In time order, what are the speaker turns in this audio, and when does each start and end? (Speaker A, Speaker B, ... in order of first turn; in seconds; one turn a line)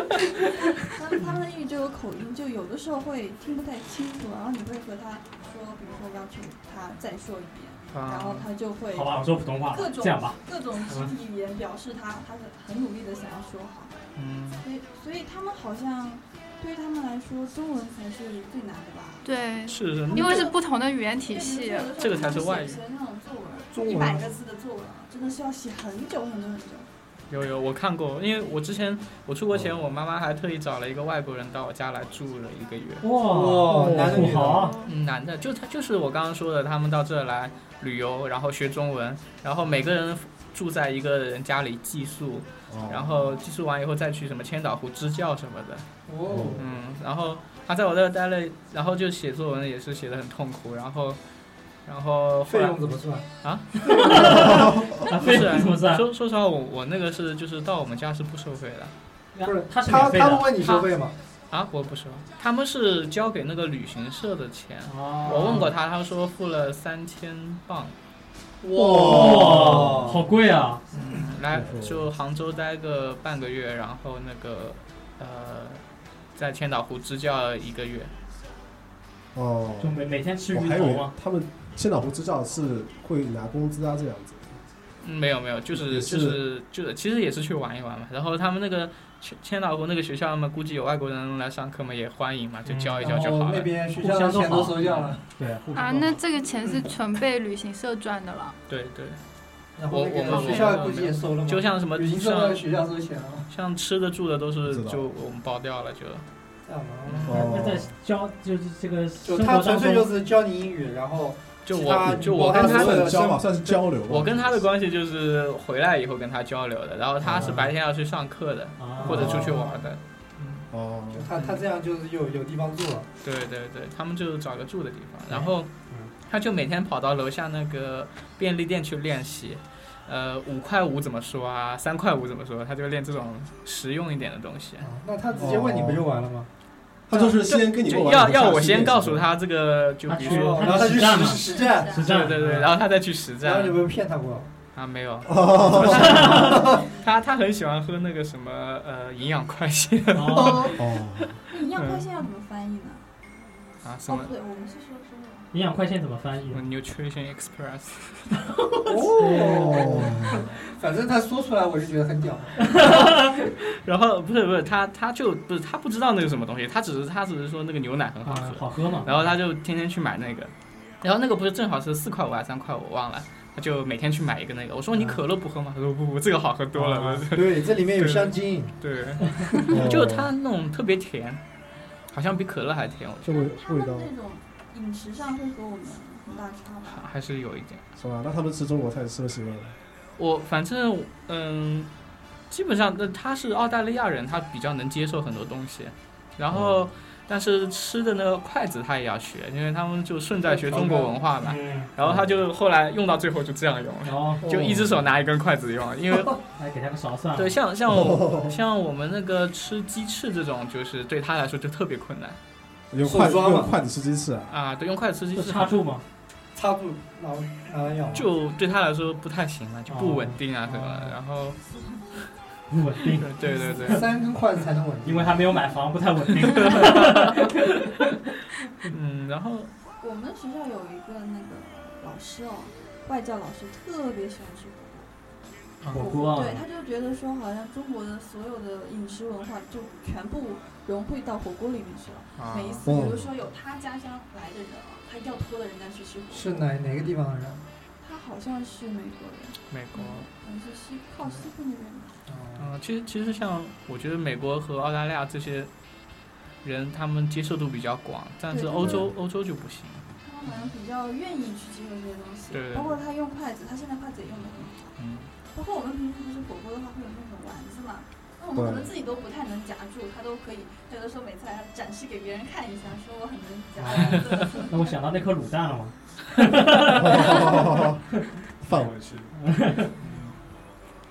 Speaker A: 0.1-0.8
Speaker B: 0.9-19.3
Speaker C: 7.9-8.5
Speaker A: 8.9-11.1
Speaker C: 14.2-14.7
Speaker D: 19.2-21.9
Speaker C: 19.7-20.5
Speaker B: 20.1-20.6
Speaker B: 21.2-26.9
Speaker C: 22.0-22.8
Speaker E: 23.7-24.3
Speaker C: 27.3-33.1
Speaker A: 33.0-34.8
Speaker E: 33.2-34.7
Speaker F: 33.7-34.4
Speaker D: 34.5-34.9
Speaker C: 34.8-45.9
Speaker F: 42.7-43.2
Speaker E: 46.1-46.7
Speaker F: 46.3-46.7
Speaker C: 46.6-51.2
Speaker C: 51.9-52.8
Speaker E: 52.5-53.3
Speaker C: 53.4-58.9
Speaker A: 53.8-56.0
Speaker F: 54.4-54.9
Speaker A: 59.3-60.5
Speaker E: 59.4-61.1
Speaker C: 60.6-60.9
Speaker C: 61.5-68.0
Speaker A: 64.9-65.7
Speaker E: 65.3-65.5
Speaker E: 68.6-70.2
Speaker F: 68.8-70.2
Speaker A: 68.8-70.8
Speaker C: 70.9-75.8
Speaker F: 71.5-72.1
Speaker C: 76.4-78.1
Speaker F: 79.3-80.0
Speaker A: 79.8-81.1
Speaker F: 80.5-84.6
Speaker C: 85.0-93.7
Speaker F: 85.7-86.4
Speaker A: 92.7-93.2
Speaker E: 93.0-95.2
Speaker A: 94.0-96.2
Speaker C: 94.8-95.2
Speaker D: 95.8-98.6
Speaker C: 98.7-99.2
Speaker E: 99.8-103.5
Speaker C: 99.9-102.7
Speaker D: 100.3-100.8
Speaker C: 103.5-106.2
Speaker F: 104.7-105.1
Speaker E: 106.7-107.4
Speaker C: 107.0-107.4
Speaker F: 107.3-107.9
Speaker A: 107.3-110.1
Speaker E: 109.2-113.8
Speaker C: 111.7-113.2
Speaker F: 112.0-114.6
Speaker C: 114.1-120.0
Speaker F: 117.2-117.6
Speaker A: 117.4-117.7
Speaker A: 118.8-119.5
Speaker E: 119.0-119.7
Speaker F: 119.1-119.6
Speaker E: 120.4-123.1
Speaker F: 120.7-121.3
Speaker C: 121.4-121.7
Speaker C: 123.2-134.9
Speaker A: 125.4-126.1
Speaker E: 134.8-136.5
Speaker F: 135.3-136.1
Speaker F: 137.1-139.3
Speaker C: 137.1-141.0
Speaker A: 140.1-142.7
Speaker E: 140.2-142.6
Speaker B: 141.2-142.2
Speaker C: 142.0-143.8
Speaker E: 143.4-144.5
Speaker C: 144.8-151.3
Speaker F: 145.3-146.4
Speaker A: 145.9-146.7
Speaker E: 146.0-146.9
Speaker A: 150.1-150.7
Speaker E: 150.3-150.8
Speaker F: 150.8-151.4
Speaker B: 151.5-153.0
Speaker C: 151.8-152.1
Speaker C: 153.8-154.3
Speaker B: 154.1-155.5
Speaker A: 155.5-156.6
Speaker C: 156.5-158.4
Speaker A: 158.6-160.1
Speaker E: 158.9-162.8
Speaker F: 159.4-160.5
Speaker A: 162.6-163.4
Speaker C: 162.8-181.4
Speaker A: 168.2-169.3
Speaker A: 176.7-177.3
Speaker E: 177.3-179.7
Speaker F: 179.7-180.3
Speaker C: 182.1-183.4
Speaker F: 183.2-184.1
Speaker B: 183.3-187.1
Speaker C: 186.9-187.8
Speaker F: 188.0-189.8
Speaker C: 190.2-191.9
Speaker C: 192.5-206.4
Speaker F: 196.5-196.9
Speaker E: 200.5-201.1
Speaker A: 201.4-201.9
Speaker F: 202.0-202.4
Speaker A: 204.1-204.4
Speaker F: 204.4-205.0
Speaker A: 206.4-207.6
Speaker C: 207.4-212.4
Speaker F: 207.9-208.6
Speaker F: 212.9-214.5
Speaker E: 213.0-213.7
Speaker C: 214.5-215.8
Speaker A: 215.3-216.0
Speaker E: 216.5-218.3
Speaker C: 218.1-221.6
Speaker A: 219.9-221.1
Speaker A: 222.7-224.0
Speaker C: 223.2-224.1
Speaker E: 223.8-225.4
Speaker A: 225.1-227.9
Speaker C: 226.4-227.7
Speaker C: 228.8-229.7
Speaker B: 230.0-235.1
Speaker C: 235.8-236.1
Speaker A: 235.9-236.6
Speaker B: 235.9-246.7
Speaker C: 242.4-242.9
Speaker F: 242.9-243.3
Speaker E: 246.3-247.6
Speaker B: 248.0-252.2
Speaker C: 249.7-250.3
Speaker E: 252.3-252.7
Speaker C: 252.6-255.7
Speaker C: 256.6-260.1
Speaker B: 258.5-259.1
Speaker F: 258.8-259.1
Speaker B: 260.2-265.0
Speaker C: 262.5-263.0
Speaker C: 265.0-265.3
Speaker B: 265.5-275.0
Speaker F: 268.6-268.9
Speaker A: 273.8-277.6
Speaker F: 277.0-278.0
Speaker B: 277.3-277.6
Speaker F: 278.6-279.2
Speaker A: 279.4-279.9
Speaker C: 280.0-280.4